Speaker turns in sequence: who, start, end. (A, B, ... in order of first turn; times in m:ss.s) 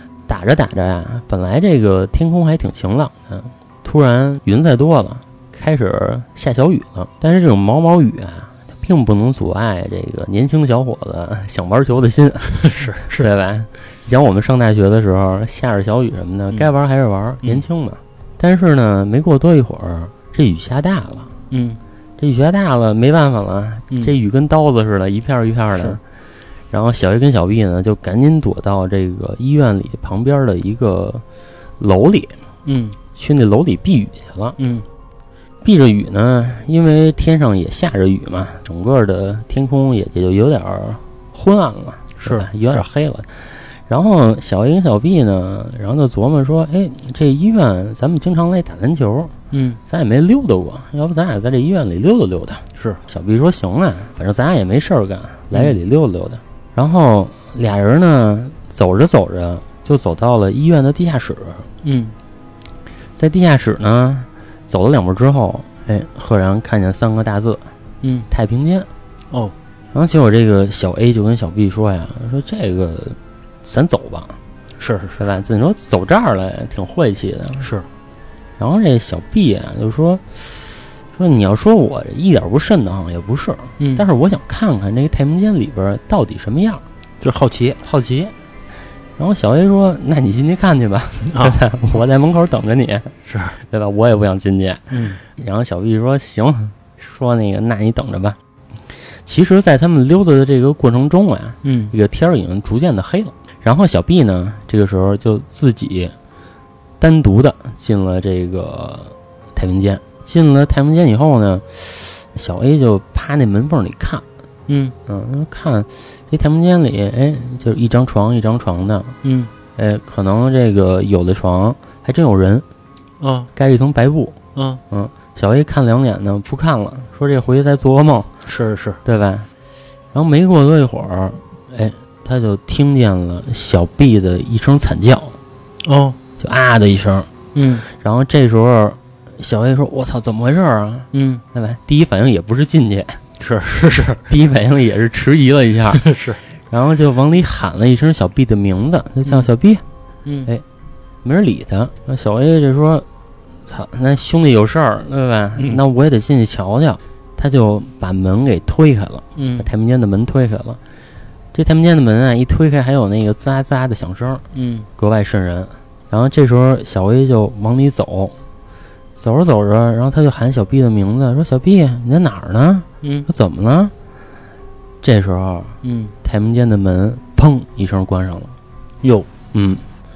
0:00.3-0:21.3 A
0:12.6-0:13.3 B
0:21.5-0:21.8 B
0:22.2-0:26.0 A
0:26.7-0:31.2 A
0:31.8-0:32.4 A
0:32.7-0:33.0 B
0:33.2-0:34.6 A
0:34.6-0:34.8 B
0:35.6-0:49.4 A
0:42.2-0:42.8 B
0:49.5-0:49.8 B
0:49.9-1:01.7 A
1:01.8-1:02.1 B
1:03.2-1:07.6 A
1:08.3-1:08.9 A
1:09.9-1:14.4 A
1:14.8-1:15.2 B
1:15.2-1:17.7 A
1:18.6-1:26.8 A
1:23.8-1:24.1 B
1:27.2-1:27.8 B
1:27.8-1:28.3 A
1:29.2-1:38.4 A
1:31.3-1:31.6 B
1:33.3-1:33.6 B
1:34.9-1:35.2 B
1:39.2-1:46.1 A
1:41.6-1:41.9 B
1:47.0-1:54.2 A
1:54.7-1:54.9 B
1:55.1-1:59.1 A
1:59.2-1:59.5 B
1:59.8-2:02.7 A
2:03.2-2:03.5 B
2:03.6-2:04.4 A
2:04.6-2:04.8 B
2:04.9-2:08.3 A
2:08.5-2:09.0 B
2:09.0-2:09.5 A
2:10.1-2:15.4 A
2:15.8-2:16.2 B
2:16.4-2:17.3 A
2:17.6-2:17.9 B
2:17.9-2:23.2 A
2:21.1-2:21.4 B
2:23.4-2:24.2 B
2:24.3-2:26.1 A
2:25.9-2:26.4 B
2:26.7-2:29.8 A
2:31.2-2:33.1 A
2:33.7-2:40.8 A
2:35.6-2:35.8 B
2:39.4-2:39.7 B
2:41.5-2:44.4 A
2:44.5-2:44.9 B
2:45.0-2:48.4 A
2:49.2-2:53.9 A
2:53.0-2:53.3 B
2:55.0-2:58.6 A
2:55.8-2:56.1 B
2:59.5-2:59.8 A